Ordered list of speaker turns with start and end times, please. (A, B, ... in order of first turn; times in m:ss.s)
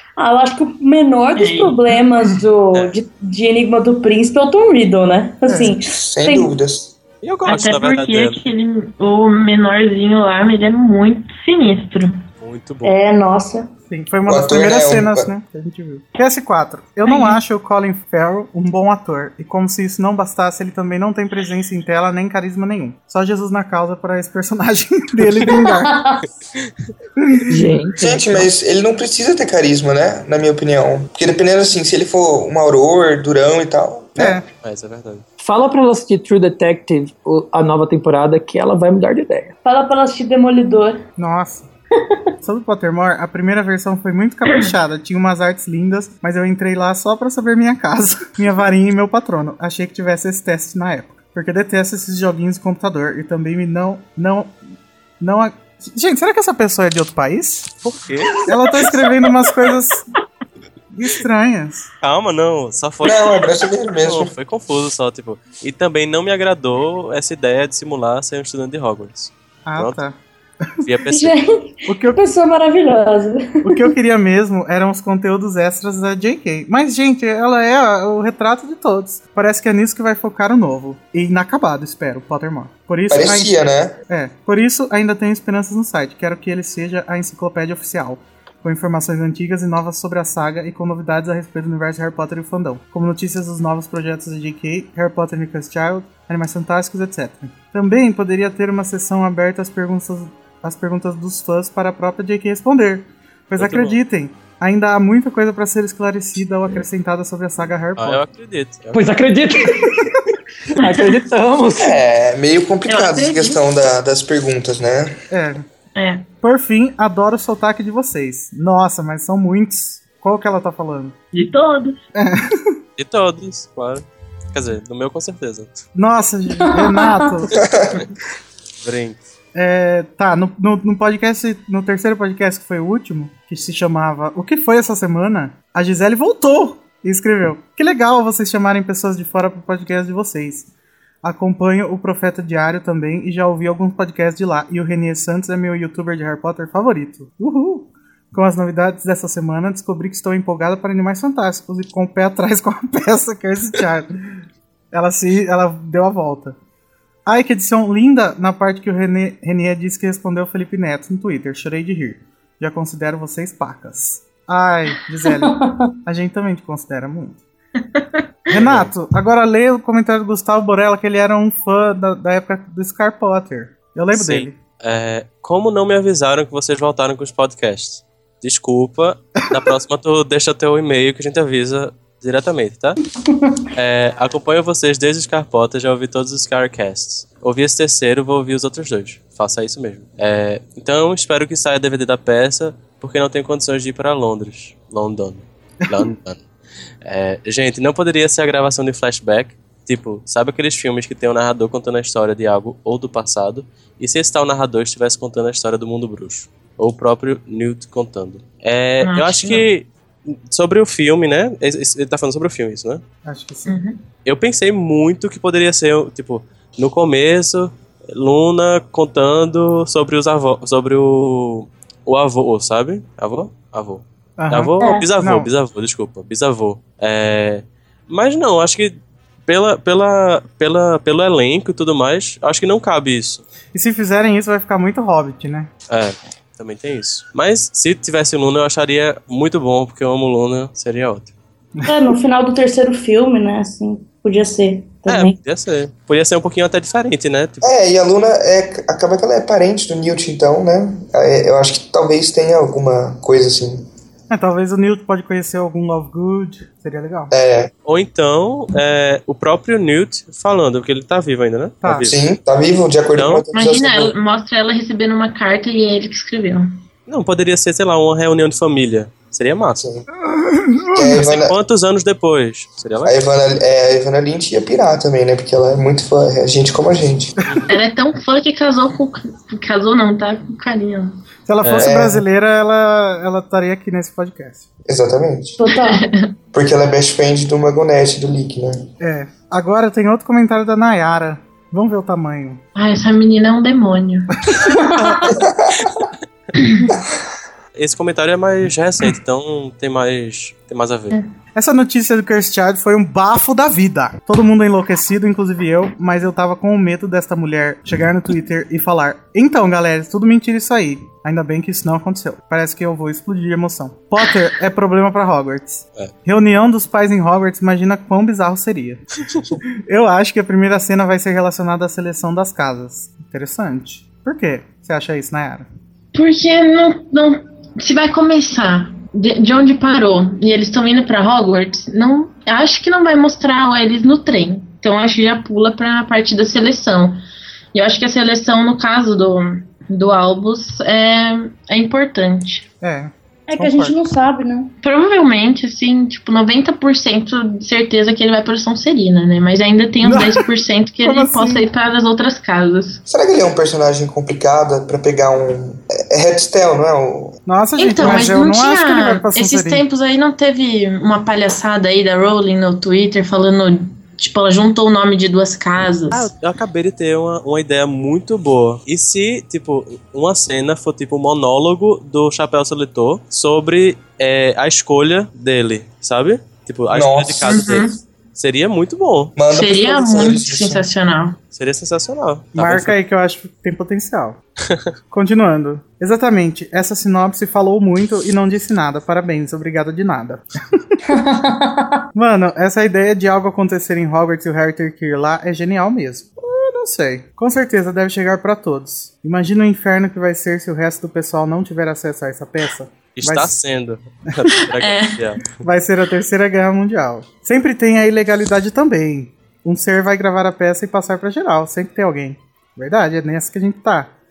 0:00.2-0:06.5 A
0:01.4-0:01.9 B
0:05.5-0:05.7 C
0:05.8-0:07.0 D
0:07.2-0:08.4 E
0:07.4-0:12.2 B
0:12.4-0:12.9 E
0:12.8-0:13.7 A
0:13.9-0:26.0 C
0:14.3-0:15.3 D
0:17.1-0:17.4 B
0:25.5-0:26.3 A
0:27.2-0:27.5 C
0:27.5-0:28.5 F
0:28.0-0:34.4 D
0:34.2-0:34.5 C
0:34.6-0:35.2 E
0:35.4-0:39.6 F
0:39.6-0:41.0 A
0:41.2-0:41.7 C
0:42.4-0:54.6 C
0:55.2-0:57.8 C
0:57.8-0:58.5 E
0:58.5-1:00.1 C
1:00.9-1:01.9 C
1:02.0-1:10.0 E
1:03.0-1:04.3 D
1:09.7-1:10.2 C
1:10.8-1:11.4 E
1:11.1-1:13.8 A
1:11.9-1:12.2 C
1:13.6-1:23.6 C
1:23.1-1:24.0 D
1:24.1-1:48.2 C
1:43.6-1:44.0 E
1:48.0-1:49.0 E
1:48.9-1:50.0 F
1:50.8-1:52.0 F
1:51.8-1:55.2 D
1:52.9-1:53.6 B
1:55.3-1:55.6 C
1:56.0-1:56.3 B
1:56.4-2:01.2 C
2:01.3-2:02.0 B
2:02.2-2:02.8 C
2:03.0-2:05.9 E
2:06.0-2:07.6 C
2:06.6-2:07.2 A
2:07.5-2:08.0 D
2:08.8-2:09.2 E
2:09.6-2:20.7 C
2:21.2-2:34.4 C
2:34.9-2:36.6 C
2:37.3-2:47.4 C
2:45.2-2:45.9 A
2:47.8-2:48.3 B
2:48.5-2:54.6 C
2:48.6-2:48.9 E
2:54.1-3:03.0 E
3:03.3-3:03.6 A
3:03.8-3:16.5 E
3:17.0-3:33.0 E
3:29.0-3:29.7 B
3:33.2-3:33.8 C
3:33.7-3:34.0 B
3:34.2-3:48.9 E
3:44.4-3:45.5 C
3:44.8-3:45.1 A
3:49.5-3:53.4 E
3:53.7-3:55.7 C
3:55.9-4:01.3 E
4:01.9-4:05.4 A
4:05.1-4:07.7 E
4:07.6-4:13.9 D
4:14.3-4:17.3 C
4:17.3-4:17.7 D
4:17.8-4:22.2 E
4:21.8-4:22.1 C
4:22.1-4:24.1 D
4:23.2-4:23.4 E
4:23.5-4:26.7 B
4:27.1-4:29.8 E
4:29.8-4:30.1 D
4:30.2-4:31.2 C
4:30.9-4:31.6 D
4:31.1-4:33.2 E
4:33.0-4:37.4 D
4:37.7-4:41.2 B
4:41.5-4:44.6 C
4:41.6-4:42.0 E
4:41.8-4:42.2 D
4:44.9-4:45.6 D
4:45.6-4:46.0 A
4:45.8-4:46.3 B
4:46.5-4:48.9 D
4:49.0-4:52.6 C
4:52.8-4:54.6 B
4:54.6-4:55.2 A
4:55.3-4:56.1 D
4:56.6-4:56.9 B
4:57.8-5:01.1 E
5:01.6-5:19.0 C
5:19.8-5:25.7 C
5:26.1-5:37.2 B
5:37.7-5:42.7 B
5:42.8-5:44.0 C
5:43.5-5:44.7 A
5:44.8-5:53.0 B
5:50.0-5:50.5 C
5:51.0-5:51.7 C
5:53.1-5:57.4 D
5:57.5-5:59.8 C
5:57.8-6:06.3 B
6:06.1-6:19.4 E
6:16.9-6:17.8 D
6:17.5-6:18.0 B
6:19.4-6:20.9 D
6:19.5-6:21.4 B
6:21.5-6:22.9 E
6:22.6-6:24.4 C
6:25.1-6:31.0 C
6:31.1-6:32.0 A
6:32.2-6:43.5 C
6:43.2-6:45.6 E
6:44.7-6:45.2 B
6:45.6-6:54.1 C